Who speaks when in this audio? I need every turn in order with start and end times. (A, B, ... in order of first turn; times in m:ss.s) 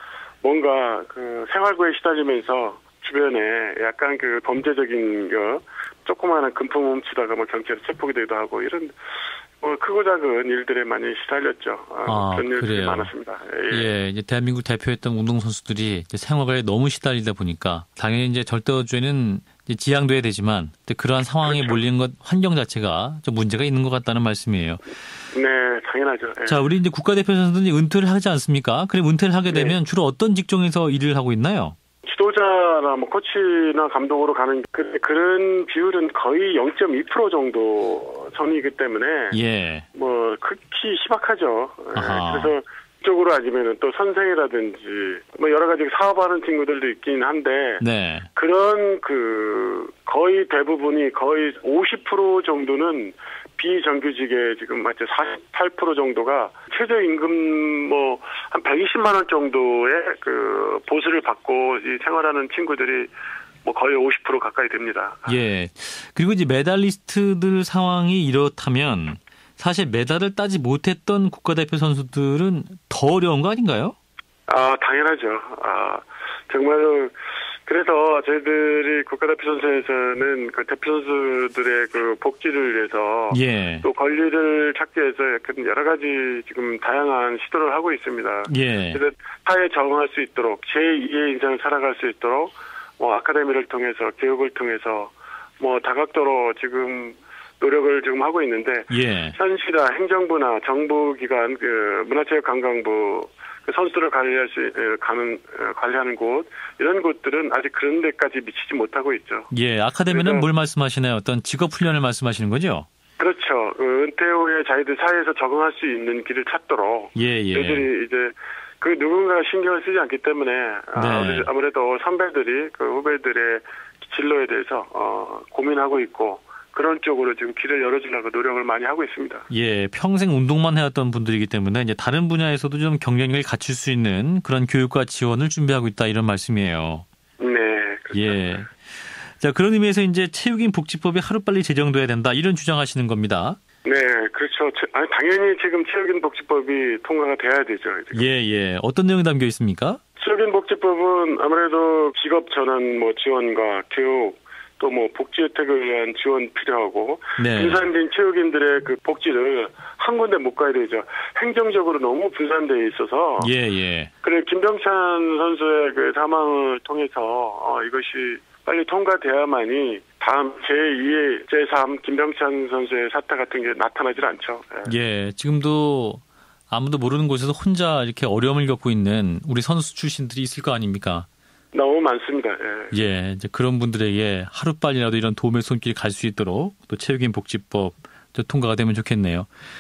0:00.4-0:09.0 A
0:09.6-0:13.9 A
0:12.1-0:13.1 B
0:13.7-0:24.8 B
0:21.4-0:21.8 A
0:25.3-0:26.6 A
0:26.5-0:31.8 B
0:29.5-0:29.8 A
0:32.0-0:39.4 A
0:39.3-0:39.9 B
0:40.0-0:47.8 A
0:41.9-0:42.6 B
0:47.8-0:48.3 B
0:48.4-1:03.1 A
1:03.6-1:05.4 A
1:05.3-1:14.0 B
1:14.5-1:49.5 A
1:23.3-1:23.9 B
1:28.5-1:29.0 B
1:38.9-1:39.4 B
1:49.5-1:52.9 B
1:50.1-1:50.5 A
1:53.2-2:09.5 A
1:57.2-1:57.9 B
2:01.0-2:01.5 B
2:09.5-2:17.0 B
2:17.4-2:18.6 A
2:18.1-2:23.6 B
2:23.8-2:28.3 A
2:28.1-2:30.0 B
2:30.2-2:43.5 A
2:37.4-2:37.8 B
2:43.4-2:44.1 B
2:44.2-2:54.9 A
2:54.9-3:01.3 B
3:01.7-3:02.9 A
3:02.9-3:09.5 B